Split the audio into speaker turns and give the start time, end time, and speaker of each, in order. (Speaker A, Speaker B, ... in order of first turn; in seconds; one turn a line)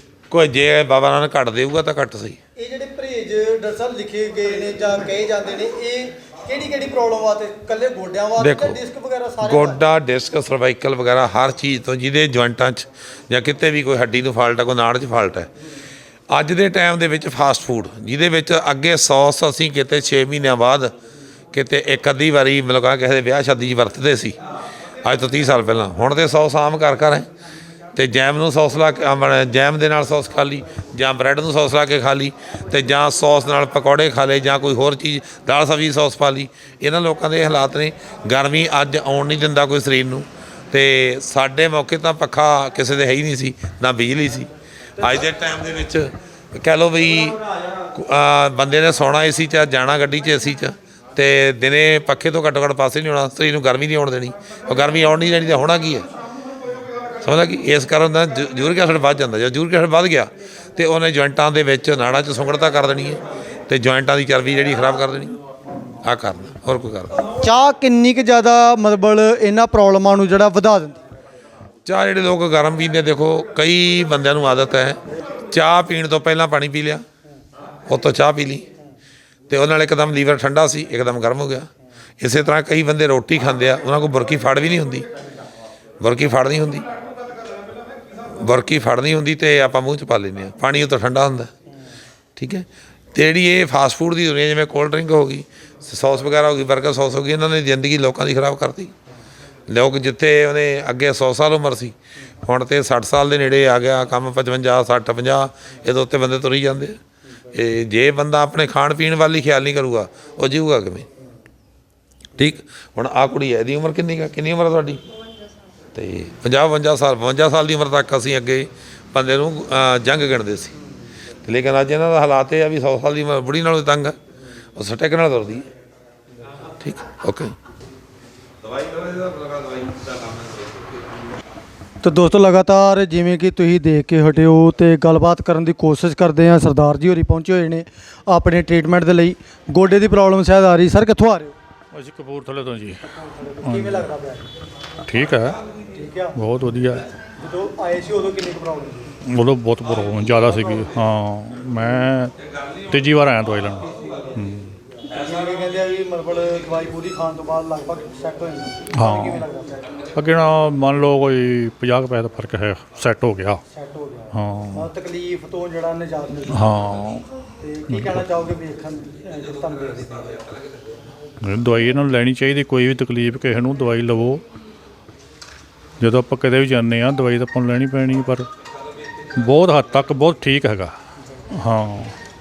Speaker A: 0.3-2.4
Speaker B: 2.6-9.8
Speaker A: 8.4-8.8
Speaker A: 9.4-15.5
Speaker A: 16.3-20.9
Speaker A: 21.5-24.4
Speaker A: 25.0-27.3
Speaker A: 27.9-47.4
Speaker A: 47.9-56.0
Speaker A: 57.2-65.3
Speaker A: 66.0-67.3
Speaker B: 67.4-71.0
Speaker A: 71.8-75.0
Speaker A: 75.5-77.0
Speaker A: 77.9-78.6
Speaker A: 79.5-81.7
Speaker A: 82.2-85.0
Speaker A: 86.0-86.8
Speaker A: 88.4-91.5
Speaker A: 92.4-98.9
Speaker A: 99.7-107.0
Speaker A: 107.5-111.0
Speaker A: 112.4-115.0
Speaker A: 115.9-120.7
Speaker A: 121.4-124.1
Speaker A: 124.8-125.7
Speaker A: 126.8-127.5
Speaker A: 128.6-130.9
Speaker B: 132.0-141.5
Speaker C: 141.9-143.0
Speaker B: 143.0-144.5
Speaker C: 143.6-144.0
Speaker C: 145.1-145.6
Speaker B: 145.9-146.4
Speaker C: 146.3-147.0
Speaker B: 147.4-149.1
Speaker C: 149.2-152.3
Speaker C: 152.9-154.7
Speaker B: 155.1-159.8
Speaker C: 158.9-159.4
Speaker C: 160.2-163.6
Speaker B: 163.7-166.7
Speaker C: 164.3-164.9
Speaker C: 166.5-167.2
Speaker B: 167.6-170.5
Speaker C: 167.9-168.2
Speaker C: 171.4-174.4
Speaker C: 176.0-178.5
Speaker C: 179.4-180.9
Speaker C: 181.5-182.1